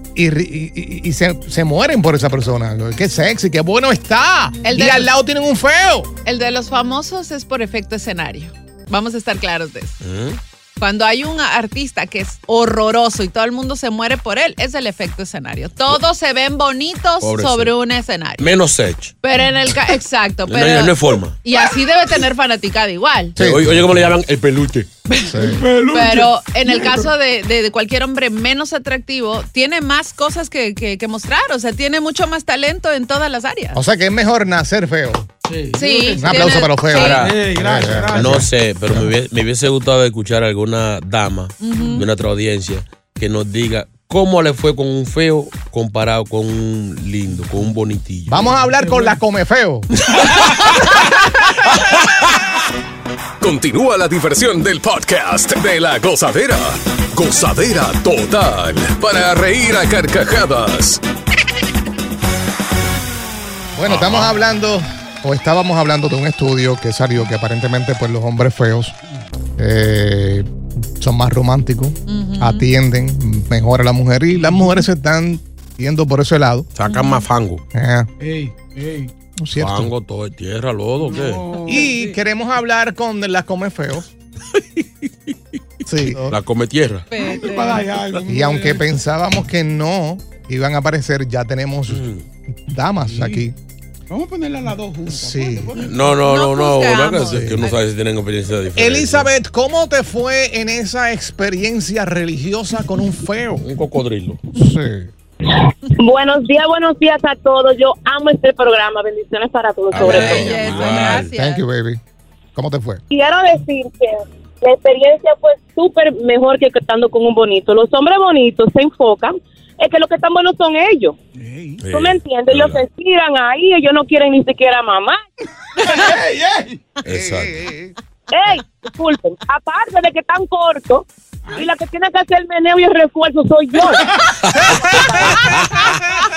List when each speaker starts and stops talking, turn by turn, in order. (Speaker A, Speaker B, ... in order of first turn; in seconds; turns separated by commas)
Speaker A: 0.1-6.1, Speaker B: 4.6-5.1, Speaker B: 6.2-10.0, Speaker C: 10.0-10.4, Speaker B: 10.8-18.5, Speaker C: 17.2-17.7, Speaker C: 18.4-19.1, Speaker B: 19.2-23.4, Speaker C: 20.5-21.4, Speaker A: 23.4-24.1, Speaker C: 23.4-24.9, Speaker B: 25.1-33.8, Speaker A: 25.3-25.6, Speaker D: 25.4-27.1, Speaker A: 33.7-35.3, Speaker D: 35.5-38.5, Speaker B: 35.7-37.2, Speaker A: 36.2-39.1, Speaker C: 36.9-48.5, Speaker B: 41.6-42.0, Speaker A: 48.3-49.9, Speaker E: 53.4-61.0, Speaker A: 63.8-68.9, Speaker C: 63.9-64.3, Speaker A: 69.6-76.7, Speaker B: 72.1-72.7, Speaker D: 74.4-74.8, Speaker C: 76.7-77.6, Speaker B: 76.9-77.2, Speaker A: 77.7-78.1, Speaker D: 78.2-79.1, Speaker A: 79.4-79.9, Speaker C: 79.6-81.4, Speaker D: 81.0-81.9, Speaker A: 81.7-84.1, Speaker B: 81.7-82.1, Speaker A: 85.9-86.3, Speaker C: 85.9-87.1, Speaker B: 87.1-87.9, Speaker D: 87.2-88.9, Speaker A: 88.2-92.0, Speaker C: 91.9-92.2, Speaker A: 92.7-93.5, Speaker D: 93.0-93.4, Speaker D: 94.1-96.2, Speaker A: 95.1-95.7, Speaker C: 95.9-99.3, Speaker B: 96.2-97.8, Speaker A: 97.3-97.6, Speaker A: 98.8-103.7, Speaker C: 103.6-104.4, Speaker A: 104.5-105.1, Speaker F: 106.0-110.6, Speaker C: 109.9-111.3, Speaker B: 110.0-111.6, Speaker A: 111.3-112.0, Speaker A: 112.5-113.0, Speaker F: 113.1-121.1, Speaker D: 121.3-121.8, Speaker C: 121.8-122.8, Speaker F: 121.9-125.2, Speaker D: 125.8-126.8, Speaker B: 125.8-126.1, Speaker C: 127.0-127.5, Speaker A: 127.0-127.9, Speaker F: 128.3-134.1, Speaker C: 134.4-135.9, Speaker F: 134.9-135.4